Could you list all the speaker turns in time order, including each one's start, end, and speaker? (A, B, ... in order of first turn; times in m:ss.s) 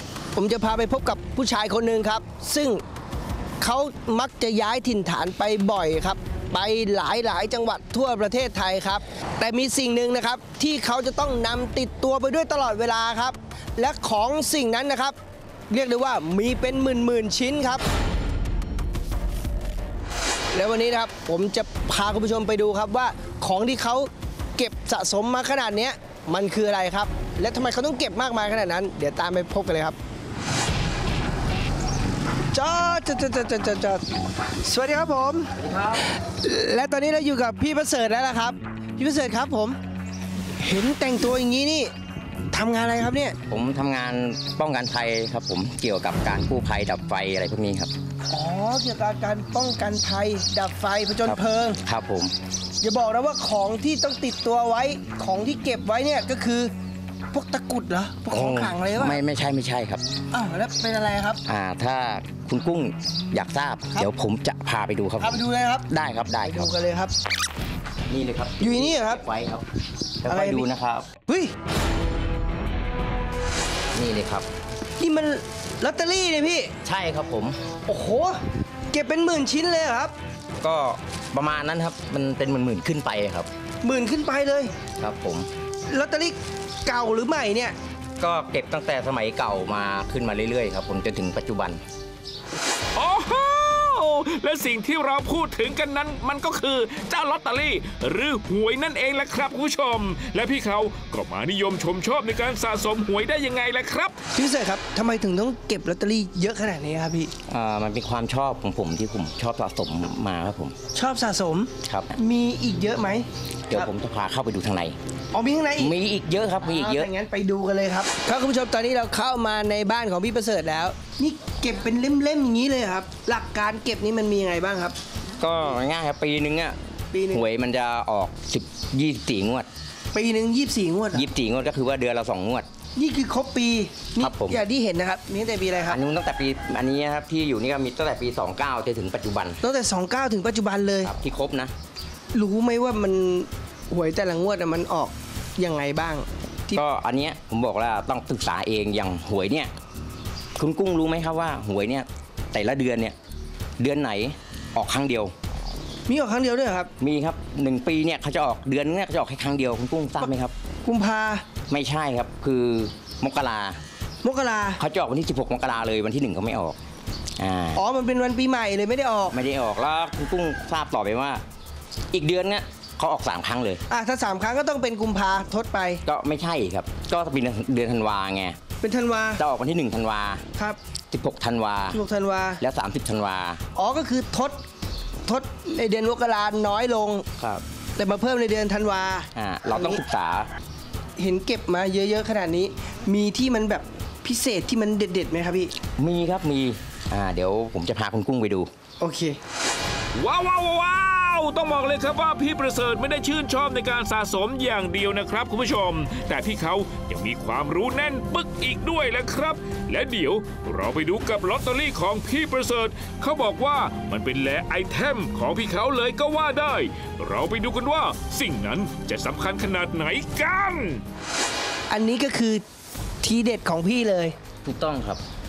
0:00.3-0:02.8 A
0:03.6-0:15.2 A
0:15.7-0:17.8 A
0:20.5-0:30.0 A
0:32.5-0:34.0 A
0:34.6-0:39.8 A
0:35.6-0:36.0 B
0:40.6-0:41.9 A
0:42.5-0:43.4 A
0:43.5-0:47.9 B
0:48.3-0:51.8 A
0:51.2-0:52.3 B
0:52.8-0:56.7 A
0:57.3-0:59.2 A
0:58.3-1:00.0 B
1:00.3-1:01.4 A
1:01.4-1:06.7 B
1:05.2-1:05.9 A
1:06.4-1:07.1 A
1:08.1-1:09.7 B
1:08.6-1:09.2 A
1:10.2-1:11.1 B
1:10.3-1:10.7 A
1:11.3-1:11.5 A
1:13.9-1:14.5 B
1:15.0-1:16.7 A
1:16.8-1:17.6 B
1:17.9-1:18.4 A
1:18.9-1:20.1 A
1:20.6-1:23.5 B
1:23.8-1:24.7 A
1:25.0-1:25.5 B
1:25.9-1:27.8 A
1:28.2-1:31.8 B
1:33.0-1:44.2 C
1:44.3-1:47.3 A
1:47.5-1:50.8 B
1:50.9-1:53.9 A
1:51.8-1:52.1 B
1:53.7-1:55.0 B
1:55.3-1:56.0 A
1:55.8-1:57.1 B
1:56.6-2:05.0 A
2:05.4-2:06.8 B
2:07.1-2:07.5 A
2:07.3-2:09.7 B
2:10.1-2:11.3 A
2:11.1-2:12.7 B
2:13.0-2:16.0 A
2:14.2-2:14.6 B
2:15.8-2:19.6 B
2:19.6-2:21.1 A
2:21.0-2:21.7 B
2:22.3-2:26.8 A
2:26.8-2:29.7 B
2:30.6-2:33.2 B
2:33.8-2:35.3 B
2:36.1-2:36.9 A
2:37.0-2:40.5 B
2:40.8-2:41.4 A
2:41.7-2:43.8 B
2:44.2-2:44.8 A
2:44.8-2:46.8 B
2:47.4-2:47.8 B
2:47.7-2:49.4 A
2:49.3-2:51.4 B
2:52.1-2:53.8 B
2:53.9-2:56.0 A
2:56.1-2:58.6 B
2:58.8-2:59.4 A
2:59.4-3:00.4 B
3:01.1-3:02.0 B
3:01.9-3:02.6 A
3:02.6-3:03.6 B
3:03.8-3:04.6 A
3:05.3-3:07.3 A
3:07.4-3:07.6 B
3:08.0-3:10.0 A
3:09.4-3:10.5 B
3:11.2-3:15.7 A
3:16.0-3:18.7 B
3:19.0-3:19.4 A
3:20.2-3:41.0 C
3:41.9-3:42.6 A
3:43.2-3:44.4 A
3:44.6-3:45.2 B